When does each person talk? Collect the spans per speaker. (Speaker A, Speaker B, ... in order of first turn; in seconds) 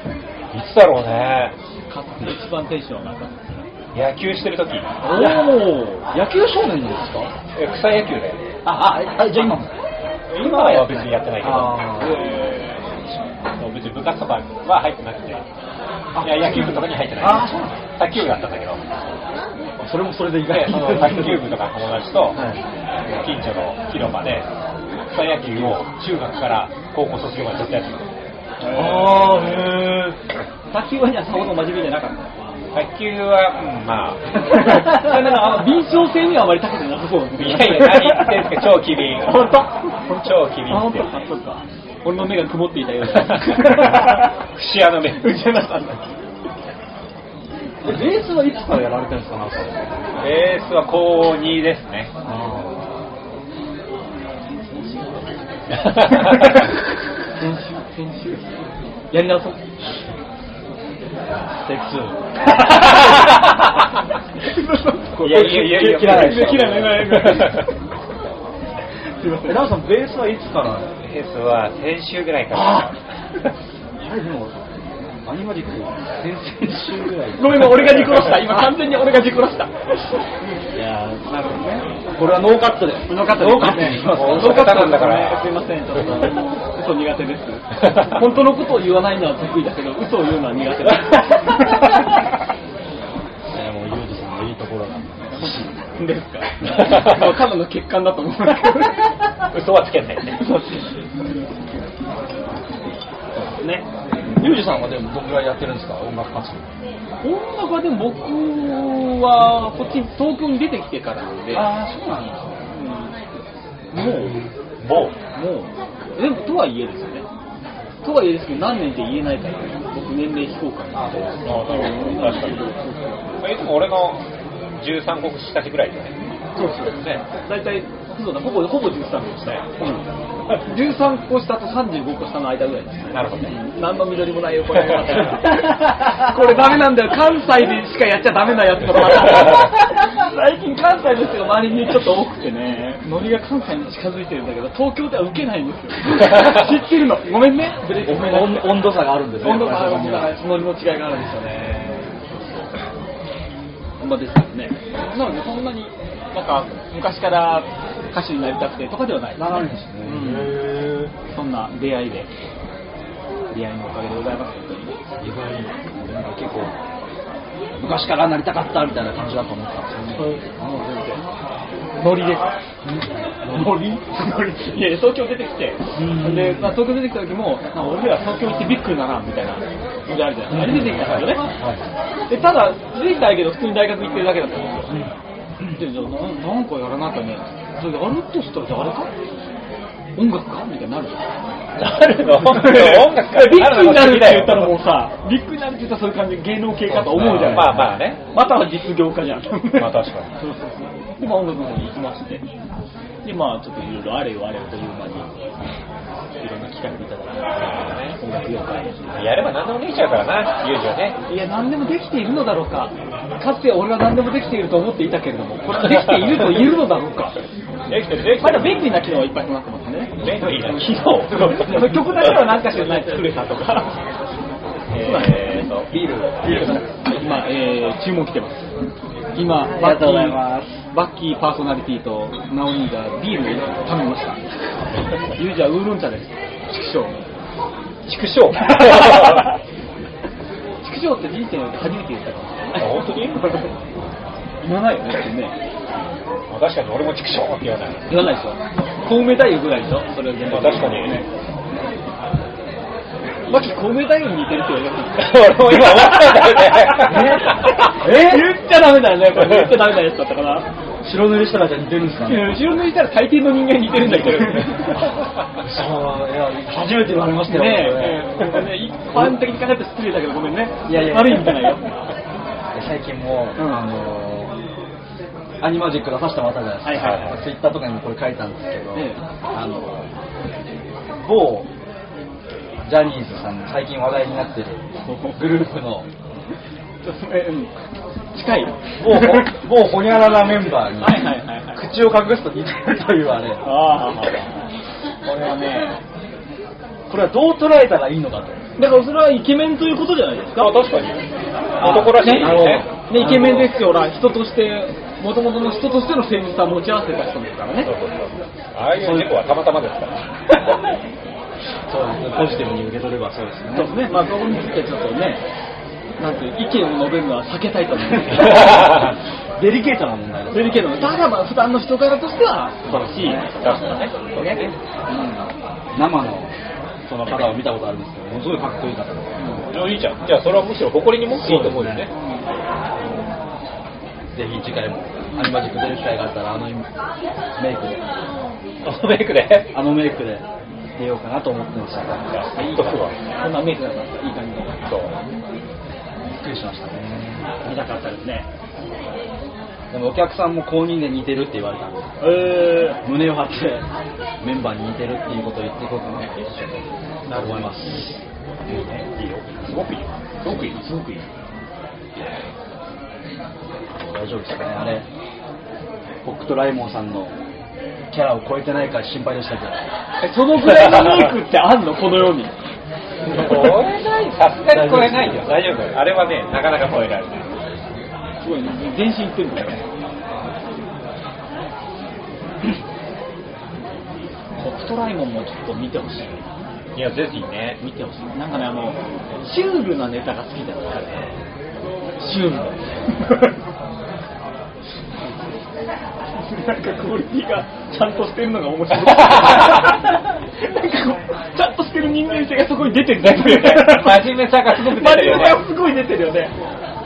Speaker A: 0.5-1.5, 3.9-4.9, 7.5-8.4, 10.3-12.0, 13.6-15.4, 16.2-18.8, 20.5-22.4, 23.1-24.5, 25.1-28.0, 32.7-34.8, 37.4-39.5, 40.2-41.1, 43.2-45.3, 50.2-52.1, 65.2-67.6, 71.0-73.0, 84.0-85.5, 99.5-100.4, 114.8-115.2, 121.4-122.7, 123.4-124.2, 124.8-126.1, 126.9-127.2, 133.1-133.6, 191.8-194.7, 196.9-198.2, 199.8-200.3, 207.6-208.2, 209.1-211.2, 215.9-216.4, 217.9-218.9, 220.2-222.0, 224.9-225.9, 226.5-226.8, 238.1-239.5, 242.8-243.4, 246.5-248.1, 250.4-251.2, 255.2-257.9, 264.1-265.0, 277.0-277.3, 300.6-301.2, 301.8-302.9, 307.8-310.2, 322.9-324.7, 329.7-332.1, 338.8-339.7, 342.2-343.1, 344.9-345.1, 358.8-360.1, 373.3-377.5, 386.9-387.8, 403.2-405.6
Speaker B: 1.9-3.4, 5.0-6.0, 10.3-11.1, 11.8-12.9, 28.6-29.6, 30.7-32.2, 34.5-38.5, 39.2-44.3, 45.2-46.0, 54.6-55.1, 56.0-56.6, 57.4-58.5, 59.1-59.6, 62.7-63.2, 64.4-67.7, 69.2-69.7, 77.4-79.7, 83.1-91.9, 95.3-99.0, 100.4-100.8, 103.5-103.8, 107.2-111.7, 112.7-113.1, 113.9-114.4, 115.3-117.2, 118.0-123.4, 126.5-130.0, 130.6-152.2, 154.0-160.6, 161.3-162.3, 163.5-164.9, 170.0-171.2, 172.0-172.5, 173.5-181.5, 182.3-185.0, 185.7-189.1, 190.2-191.2, 192.2-202.4, 203.2-205.3, 206.4-207.6, 208.1-209.2, 211.3-217.3, 218.4-223.9, 224.9-225.8, 226.5-228.7, 229.3-234.4, 235.3-237.2, 240.8-243.7, 244.6-245.6, 248.1-251.2, 253.5-260.6, 262.2-265.1, 267.4-271.9, 273.6-273.8, 276.8-277.3, 285.1-285.4, 287.0-287.7, 288.3-289.5, 291.0-291.8, 293.6-294.5, 295.2-295.9, 298.8-300.8, 301.8-307.9, 313.7-315.4, 316.2-318.9, 320.5-324.7, 329.4-329.6, 332.2-332.4, 342.6-344.7, 347.6-348.5, 352.2-353.0, 357.3-357.6, 360.4-361.2, 370.2-372.5, 378.4-379.8, 384.6-386.4, 387.8-391.4, 392.2-393.5, 396.4-406.5
Speaker C: 5.1-7.3, 8.6-9.7, 11.4-12.2, 16.1-17.8, 19.8-21.5, 22.3-22.6, 28.7-30.2, 47.8-50.0, 52.2-52.8, 61.5-63.1, 65.2-67.2, 69.5-70.9, 74.0-74.5, 75.2-78.0, 80.7-84.9, 93.5-95.7, 104.4-106.7, 111.5-112.5, 120.9-121.6, 147.9-150.3, 159.4-161.1, 165.2-166.7, 167.8-170.4, 172.8-173.9, 175.9-176.8, 180.5-181.8, 197.2-197.8, 225.9-226.8, 229.6-230.8, 257.0-258.6, 261.0-262.6, 265.6-268.6, 270.9-271.7, 272.7-274.5, 275.6-280.1, 281.2-281.7, 282.8-286.1, 289.0-293.6, 297.1-298.6, 301.8-303.7, 309.0-309.3, 311.9-313.9, 318.3-321.2, 322.9-323.4, 325.9-326.5, 327.1-329.5, 331.3-332.1, 334.3-336.9, 337.6-338.0, 339.7-340.4, 340.9-342.3, 346.3-347.5, 349.9-353.8, 354.4-356.4, 357.3-358.2, 364.0-365.1, 366.2-367.3, 368.1-369.8, 374.7-375.5